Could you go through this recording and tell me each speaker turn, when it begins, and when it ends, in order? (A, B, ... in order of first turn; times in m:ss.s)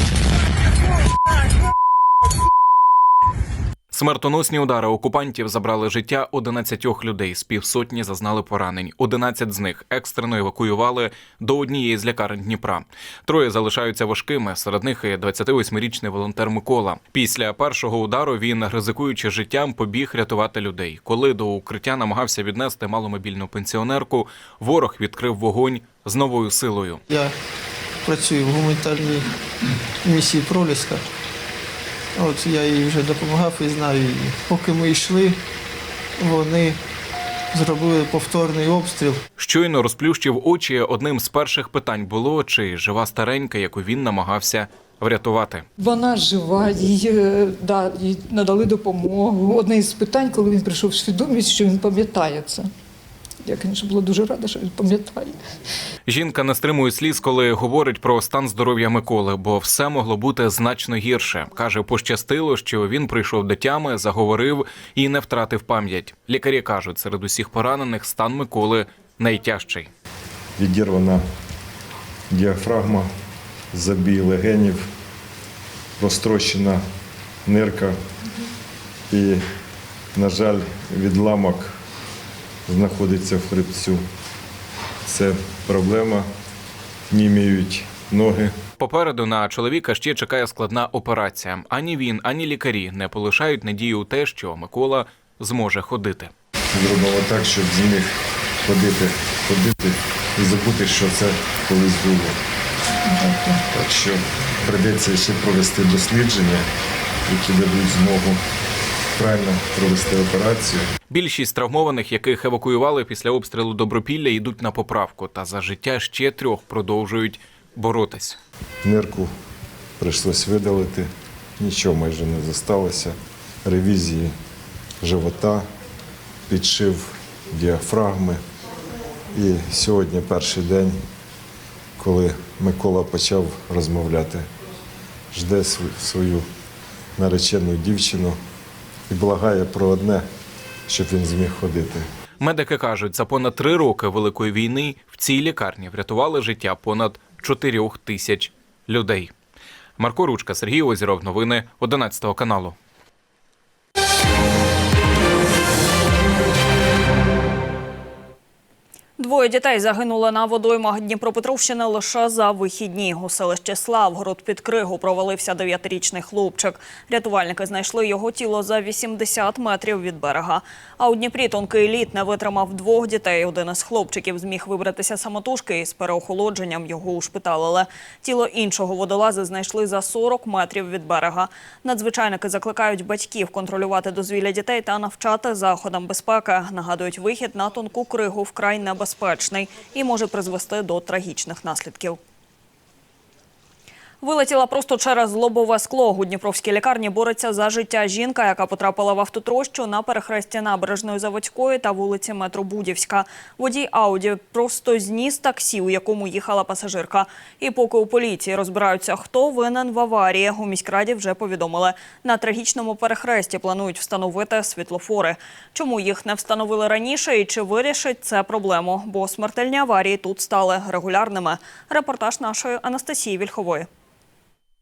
0:03.9-0:27.0 A
0:28.1-0:29.3 B
0:30.0-0:31.1 B
0:32.2-0:35.4 B
0:36.2-0:36.8 B
0:37.5-0:39.2 B
0:39.4-0:45.6 A
0:45.8-0:52.7 C
0:53.5-0:55.4 C
0:56.1-1:09.9 A
1:10.6-1:11.2 D
1:12.3-1:13.1 D
1:13.7-1:14.9 D
1:16.0-1:16.8 D
1:17.5-1:18.0 D
1:19.1-1:19.4 D
1:20.2-1:21.7 D
1:22.7-1:24.0 D
1:25.1-1:26.3 D
1:27.1-1:28.6 D
1:28.8-1:36.3 A
1:36.7-1:42.4 D
1:43.2-1:43.5 C
1:43.7-1:46.6 D
1:47.3-1:48.4 D
1:49.2-1:50.9 D
1:51.1-1:58.4 A
1:58.8-1:59.3 D
2:00.0-2:01.1 D
2:01.6-2:03.2 D
2:03.7-2:04.3 D
2:05.0-2:05.7 D
2:06.5-2:08.4 D
2:09.3-2:11.0 D
2:12.0-2:14.4 D
2:15.3-2:16.5 D
2:17.2-2:18.4 D
2:19.1-2:20.2 D
2:20.9-2:22.1 D
2:22.4-2:29.3 A
2:30.0-2:32.8 A
2:39.2-3:12.2 E
3:14.2-3:43.9 E